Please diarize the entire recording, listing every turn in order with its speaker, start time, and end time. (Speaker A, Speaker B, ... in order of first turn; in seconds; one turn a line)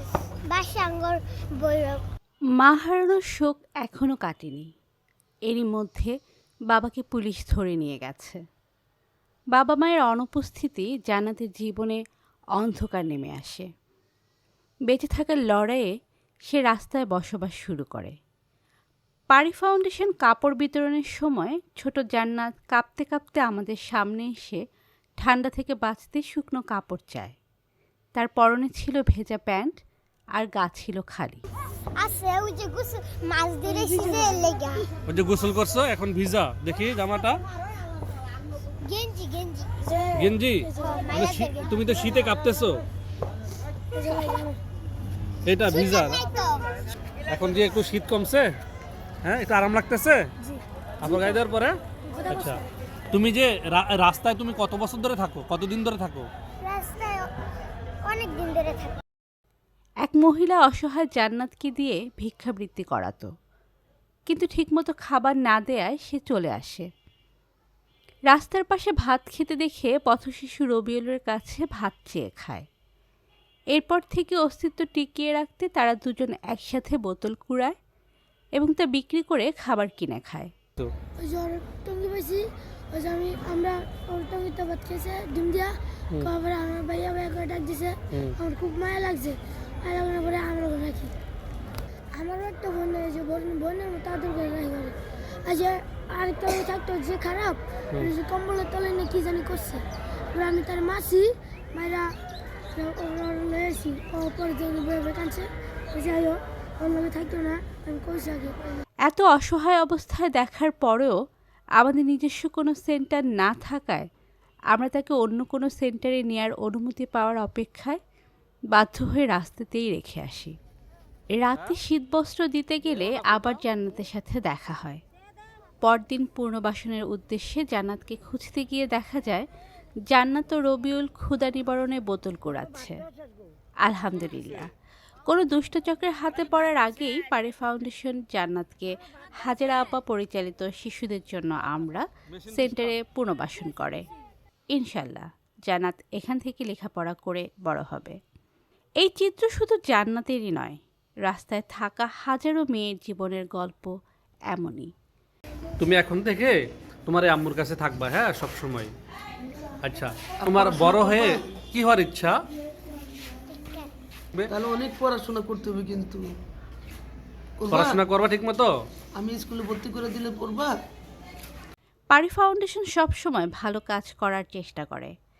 Speaker A: 0.5-2.0
Speaker B: 2.6-4.7
Speaker B: 5.5-6.1
Speaker B: 6.7-8.4
Speaker B: 9.5-12.0
Speaker B: 12.6-13.7
Speaker B: 14.9-15.9
Speaker B: 16.5-18.1
Speaker B: 19.3-24.6
Speaker B: 25.2-27.3
Speaker B: 28.1-29.8
Speaker B: 30.3-31.4
Speaker A: 32.0-34.9
Speaker C: 33.8-34.3
Speaker D: 35.1-37.4
Speaker A: 38.8-40.1
Speaker D: 40.1-42.8
Speaker C: 40.2-41.0
Speaker A: 40.8-41.8
Speaker C: 43.9-44.6
Speaker D: 45.5-46.2
Speaker A: 45.7-46.7
Speaker D: 47.3-48.5
Speaker D: 49.2-50.3
Speaker C: 50.4-51.3
Speaker D: 51.0-52.6
Speaker C: 52.1-52.6
Speaker D: 53.1-56.3
Speaker A: 56.6-57.3
Speaker A: 58.0-59.0
Speaker B: 60.0-63.3
Speaker B: 64.3-66.9
Speaker B: 68.3-72.7
Speaker B: 73.7-77.7
Speaker B: 78.6-80.5
Speaker C: 81.2-91.1
Speaker C: 92.1-102.1
Speaker C: 102.8-108.8
Speaker B: 109.0-111.1
Speaker B: 111.8-114.1
Speaker B: 114.7-118.0
Speaker B: 118.7-120.5
Speaker B: 121.3-125.0
Speaker B: 125.8-129.4
Speaker B: 130.1-133.0
Speaker B: 133.8-134.7
Speaker B: 135.2-144.0
Speaker D: 142.5-142.9
Speaker B: 144.7-148.2
Speaker B: 149.0-153.9
Speaker B: 154.5-154.9
Speaker D: 155.8-156.6
Speaker D: 157.1-158.9
Speaker D: 159.8-162.4
Speaker E: 160.4-161.4
Speaker A: 163.5-163.9
Speaker E: 164.5-166.2
Speaker E: 167.6-168.1
Speaker D: 167.7-168.7
Speaker E: 169.2-170.8
Speaker B: 172.1-175.1